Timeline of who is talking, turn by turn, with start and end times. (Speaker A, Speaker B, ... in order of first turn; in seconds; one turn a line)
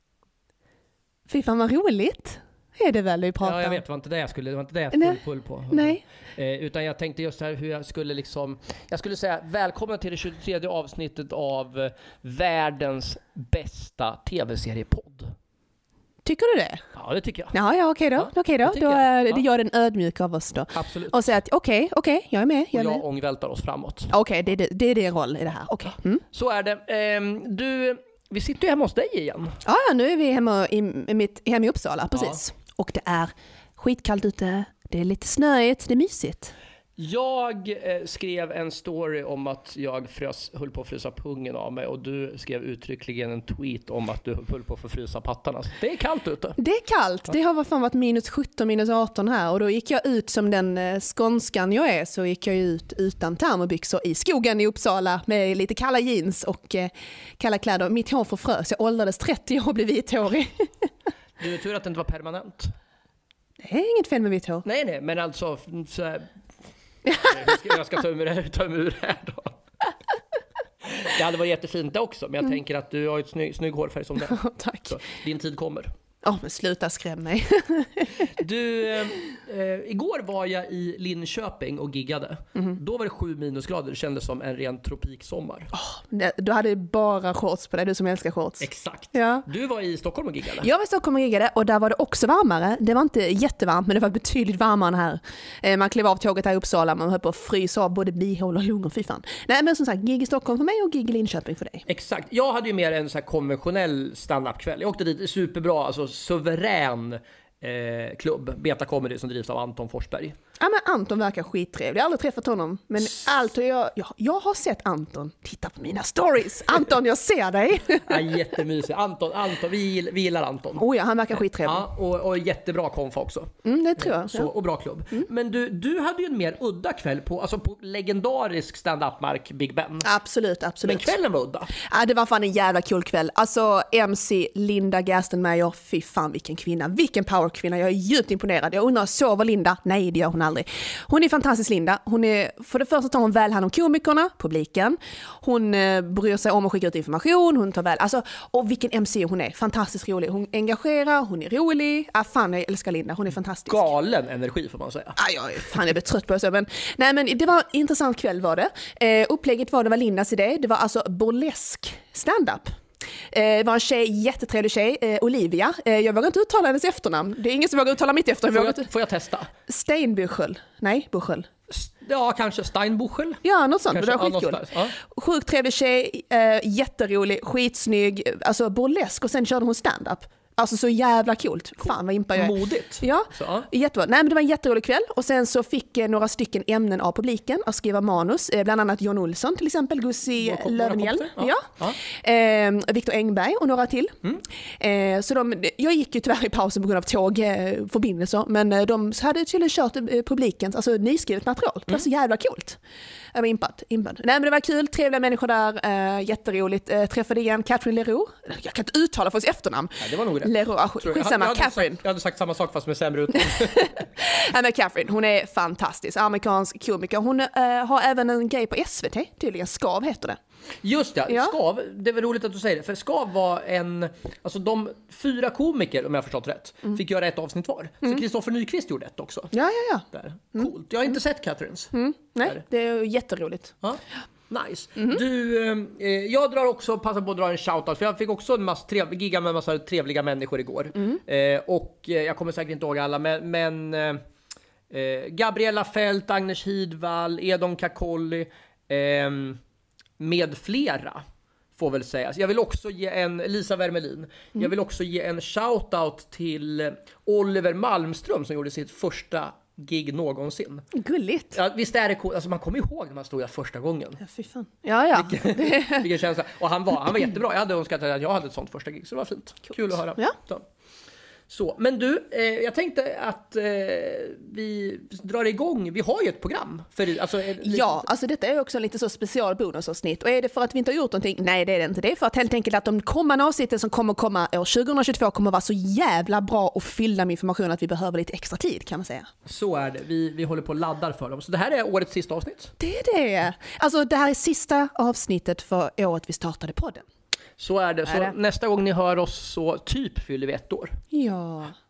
Speaker A: 1.3-3.8
Speaker B: 3.4-15.3
Speaker A: 4.9-6.0
Speaker A: 16.2-16.8
Speaker B: 17.0-17.6
Speaker A: 17.5-23.0
Speaker B: 18.2-19.4
Speaker B: 20.7-21.2
Speaker B: 22.7-24.1
Speaker A: 24.1-26.2
Speaker B: 26.3-29.6
Speaker A: 29.6-36.5
Speaker B: 32.1-32.4
Speaker B: 37.0-46.6
Speaker A: 46.6-60.9
Speaker B: 61.4-62.7
Speaker A: 63.6-64.7
Speaker B: 64.7-66.3
Speaker B: 67.1-69.6
Speaker B: 70.8-75.9
Speaker A: 74.3-74.9
Speaker A: 76.2-78.3
Speaker B: 78.2-85.7
Speaker A: 85.7-89.5
Speaker B: 88.6-90.7
Speaker A: 90.6-101.9
Speaker B: 101.9-110.4
Speaker A: 110.6-118.3
Speaker B: 118.1-120.8
Speaker A: 120.8-121.8
Speaker B: 121.6-130.1
Speaker A: 123.7-124.5
Speaker A: 130.0-131.1
Speaker B: 130.8-131.7
Speaker A: 131.8-153.9
Speaker B: 153.7-155.2
Speaker A: 155.2-162.7
Speaker A: 163.3-168.9
Speaker B: 168.5-169.5
Speaker A: 169.7-171.5
Speaker B: 171.7-173.4
Speaker A: 173.4-194.2
Speaker B: 173.9-174.9
Speaker B: 182.3-183.7
Speaker B: 190.4-192.0
Speaker A: 194.8-202.8
Speaker A: 203.3-212.0
Speaker B: 210.0-214.0
Speaker A: 213.6-220.4
Speaker B: 220.8-229.5
Speaker A: 229.5-230.1
Speaker B: 230.1-231.9
Speaker A: 231.9-233.8
Speaker B: 233.8-244.2
Speaker B: 244.9-249.6
Speaker B: 250.2-251.2
Speaker B: 251.8-260.9
Speaker A: 260.9-261.6
Speaker B: 261.5-264.2
Speaker A: 264.2-266.1
Speaker B: 265.1-270.6
Speaker B: 271.5-278.0
Speaker A: 277.6-289.3
Speaker B: 289.5-292.7
Speaker A: 292.8-297.0
Speaker B: 297.6-301.0
Speaker A: 298.1-298.3
Speaker A: 301.1-301.7